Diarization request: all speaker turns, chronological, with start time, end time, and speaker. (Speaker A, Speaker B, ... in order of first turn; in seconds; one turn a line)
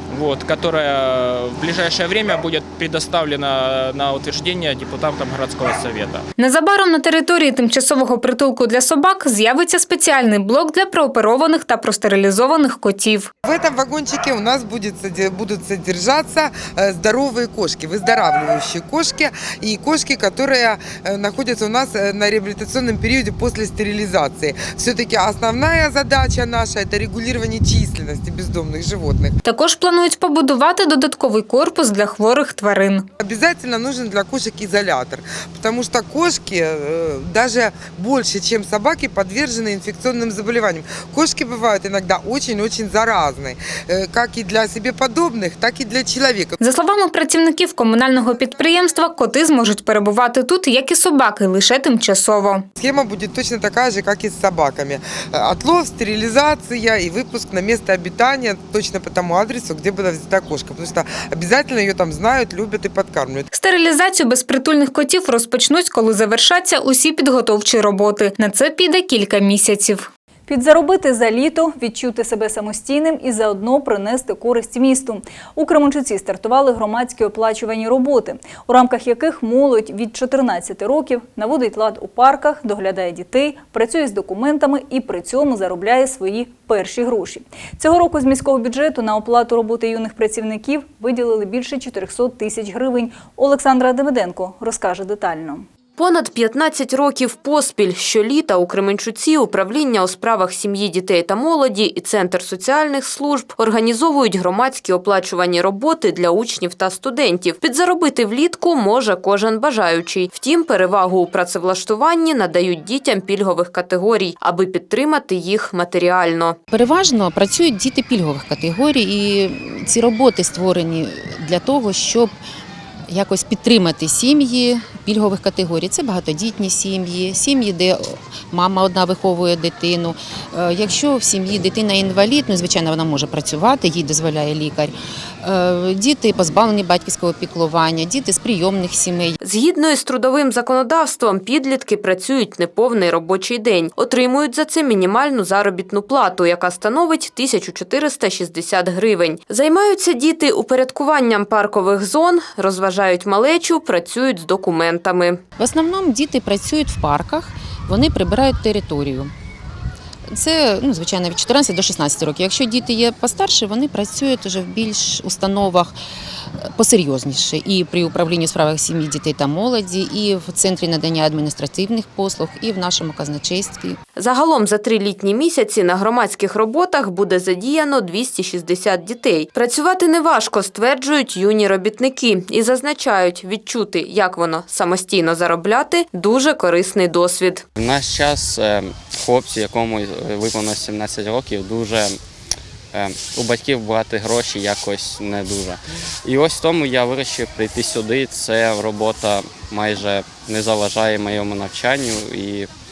Speaker A: 0.1-6.2
Speaker B: 6.4-13.3
Speaker C: 13.4-29.4
Speaker B: 29.4-33.1
Speaker C: 33.2-46.6
Speaker B: 46.6-52.7
Speaker C: 52.8-63.5
Speaker B: 63.5-70.1
Speaker D: 70.5-95.7
Speaker E: 96.0-116.6
Speaker F: 116.7-122.3
Speaker F: 123.1-139.4
Speaker E: 139.4-155.4
Speaker F: 155.6-159.3
Speaker F: 160.3-165.9
Speaker F: 166.6-174.0
Speaker E: 174.2-187.6
Speaker G: 187.8-192.2
Speaker G: 192.9-202.7